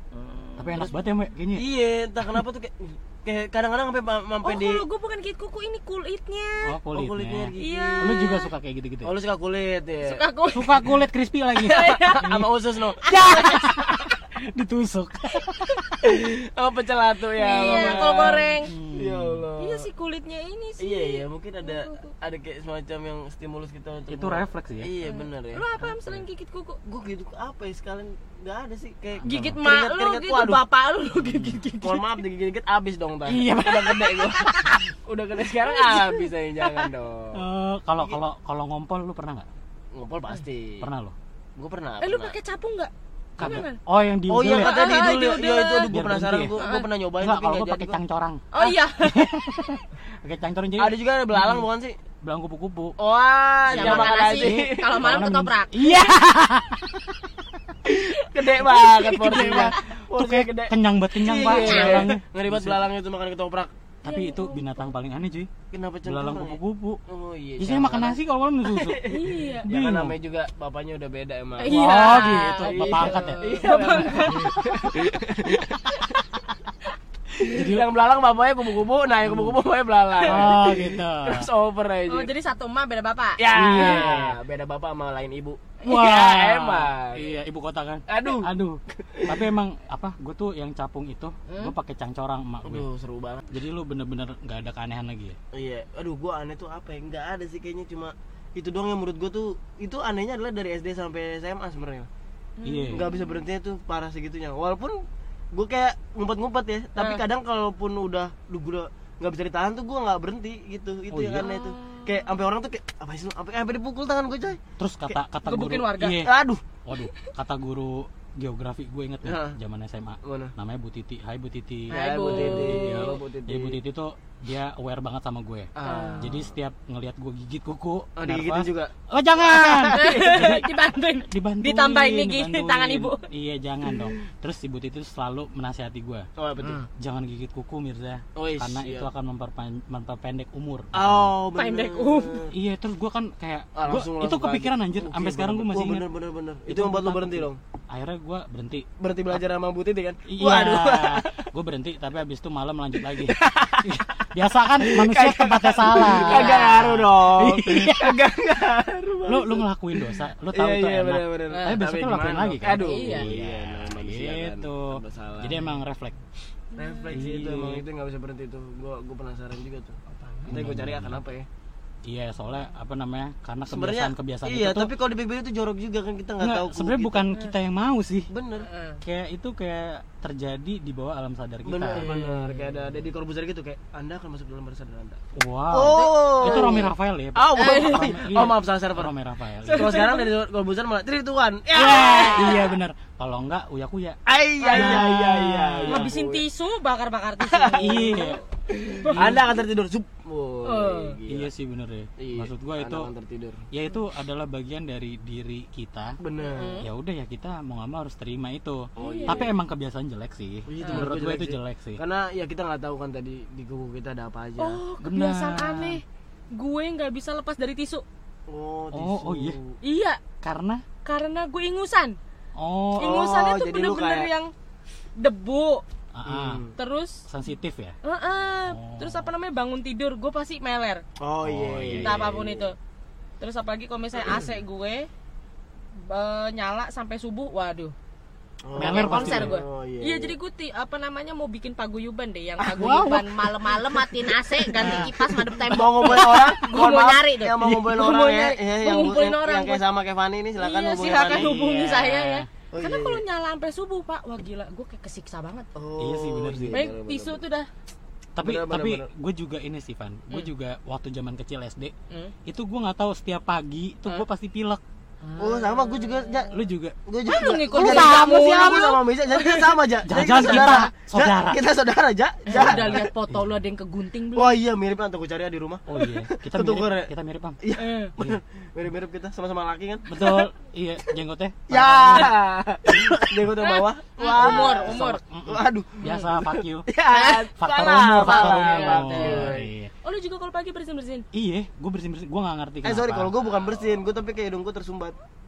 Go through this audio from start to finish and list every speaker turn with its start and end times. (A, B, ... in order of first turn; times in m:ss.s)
0:00.2-0:01.0 A
0:00.6-0:01.7 B
0:01.5-0:04.8 C
0:04.4-0:06.7 A
0:06.6-0:09.1 B
0:06.9-0:08.2 C
0:07.5-0:08.5 A
0:09.0-0:10.2 C
0:10.0-0:10.9 A
0:10.5-0:12.5 B
0:11.6-0:13.5 C
0:11.6-0:12.2 A
0:13.0-0:13.6 A
0:13.0-0:16.0 B
0:16.0-0:19.9 C
0:17.4-0:18.7 A
0:18.6-0:19.4 B
0:19.6-0:22.1 A
0:20.8-0:26.2 C
0:24.1-0:24.9 B
0:25.0-0:26.8 A
0:26.8-0:30.6 C
0:29.2-0:29.6 B
0:29.2-0:32.2 A
0:31.2-0:31.6 B
0:31.8-0:37.4 C
0:33.3-0:34.3 B
0:34.3-0:34.7 A
0:35.6-0:36.9 A
0:37.3-0:39.4 B
0:39.9-0:40.8 C
0:40.8-0:41.1 B
0:41.6-0:42.4 C
0:42.0-0:43.8 A
0:43.4-0:44.9 B
0:44.3-0:48.0 C
0:44.4-0:45.9 A
0:45.9-0:46.6 B
0:46.5-0:46.8 A
0:47.2-0:48.4 B
0:48.5-0:49.3 A
0:49.0-0:51.6 B
0:50.8-0:52.0 C
0:52.2-0:52.9 B
0:53.0-0:55.3 C
0:53.7-0:55.9 A
0:53.7-0:57.3 B
0:57.9-1:03.7 C
0:58.6-1:02.8 B
1:01.4-1:02.1 A
1:04.0-1:04.8 A
1:04.0-1:05.5 B
1:05.7-1:16.2 C
1:06.0-1:07.0 B
1:07.6-1:09.0 B
1:09.0-1:09.7 A
1:09.6-1:10.2 B
1:11.6-1:15.0 A
1:11.7-1:13.5 B
1:17.4-1:17.8 B
1:17.4-1:22.3 C
1:19.2-1:19.5 B
1:20.2-1:21.5 B
1:22.0-1:24.1 A
1:23.4-1:27.3 C
1:23.5-1:24.4 B
1:25.8-1:32.8 B
1:28.1-1:28.5 C
1:29.1-1:29.4 C
1:31.5-1:31.7 A
1:32.6-1:33.4 C
1:33.5-1:35.4 B
1:35.5-1:42.1 C
1:42.6-1:43.4 A
1:42.6-1:43.1 B
1:42.9-1:45.0 C
1:45.5-1:54.6 C
1:51.1-1:51.5 B
1:51.4-1:52.3 A
1:54.8-1:56.3 B
1:55.4-1:56.2 A
1:56.2-1:56.6 C
1:56.8-2:10.7 B
1:57.0-1:57.3 A
1:59.2-1:59.6 C
2:00.2-2:00.5 C
2:01.9-2:03.8 C
2:01.9-2:03.2 A
2:05.8-2:06.5 C
2:05.8-2:06.3 A
2:08.2-2:08.9 C
2:09.4-2:10.4 C
2:09.9-2:13.2 A
2:11.3-2:16.2 B
2:16.4-2:16.9 C
2:17.0-2:21.3 B
2:18.4-2:19.1 C
2:20.9-2:22.5 C
2:21.5-2:22.4 A
2:22.5-2:26.0 B
2:23.7-2:27.6 C
2:26.7-2:29.4 B
2:29.0-2:31.4 C
2:30.3-2:33.4 B
2:33.2-2:34.1 C
2:33.9-2:38.2 B
2:34.8-2:45.8 C
2:36.0-2:36.9 A
2:39.2-2:46.1 B
2:41.5-2:41.8 A
2:42.7-2:43.3 A
2:46.7-2:47.3 A
2:46.8-2:50.0 C
2:47.1-2:47.8 B
2:50.1-2:50.5 A
2:50.5-2:51.2 B
2:50.5-2:51.4 C
2:52.0-2:54.9 B
2:53.7-2:57.3 C
2:56.4-2:58.3 B
2:58.3-2:58.7 C
2:58.6-2:59.0 A
2:59.0-3:02.1 B
3:01.6-3:05.2 C
3:02.0-3:03.0 A
3:05.3-3:10.1 B
3:05.7-3:09.1 C
3:05.9-3:06.8 A
3:07.5-3:08.2 A
3:09.6-3:10.3 A
3:09.7-3:12.8 C
3:11.7-3:14.2 B
3:14.3-3:16.4 C
3:14.6-3:15.1 A
3:14.7-3:16.1 B
3:15.9-3:18.4 A
3:17.5-3:18.2 C
3:17.8-3:18.4 B
3:18.7-3:21.5 C
3:19.0-3:19.4 A
3:19.0-3:19.5 B
3:20.6-3:21.1 A
3:21.3-3:23.1 B
3:22.2-3:23.6 C
3:23.7-3:26.1 B
3:26.2-3:26.8 C
3:26.4-3:26.9 A
3:26.8-3:32.0 B
3:29.0-3:29.5 C
3:29.0-3:29.4 A
3:30.7-3:34.8 C
3:30.8-3:31.1 A
3:34.6-3:36.0 A
3:35.0-3:36.0 B
3:36.5-3:38.0 A
3:38.5-3:39.7 C
3:38.9-3:39.6 B
3:39.8-3:40.2 A
3:40.4-3:40.8 B
3:41.0-3:42.2 A
3:42.6-3:43.2 B
3:43.0-3:44.5 A
3:43.0-3:44.3 C
3:45.2-3:45.8 A
3:46.1-3:46.6 B
3:46.2-3:46.7 C
3:46.8-3:47.2 A
3:47.2-3:47.9 B
3:48.0-3:51.0 A
3:48.7-3:49.3 B
3:51.2-3:52.7 C
3:51.4-3:52.3 B
3:52.0-3:52.7 A
3:53.4-3:55.1 A
3:54.2-3:54.5 C
3:55.9-3:57.9 A
3:58.6-4:00.4 C
3:58.8-3:59.6 B
3:58.8-4:09.8 A
4:02.6-4:03.5 B
4:04.7-4:05.3 B
4:04.8-4:11.6 C
4:06.0-4:06.5 B
4:10.6-4:15.6 A
4:11.3-4:12.5 B
4:12.7-4:13.2 C
4:15.8-4:17.4 C
4:16.0-4:16.8 B
4:16.7-4:17.7 A
4:18.4-4:21.9 B
4:18.4-4:19.1 C
4:22.4-4:24.8 B
4:25.2-4:26.3 A
4:25.4-4:33.1 C
4:26.5-4:26.9 B
4:27.3-4:30.8 A
4:27.6-4:28.9 B
4:30.0-4:31.6 B
4:32.4-4:34.5 A
4:32.5-4:33.5 B
4:34.3-4:40.4 C
4:35.9-4:37.6 B
4:37.8-4:38.1 A
4:40.1-4:42.3 B
4:41.7-4:49.7 C
4:42.9-4:43.3 B
4:43.6-4:45.2 A
4:44.4-4:46.9 B
4:47.1-4:51.2 A
4:47.5-4:49.9 B
4:51.3-4:53.3 B
4:52.8-4:55.1 C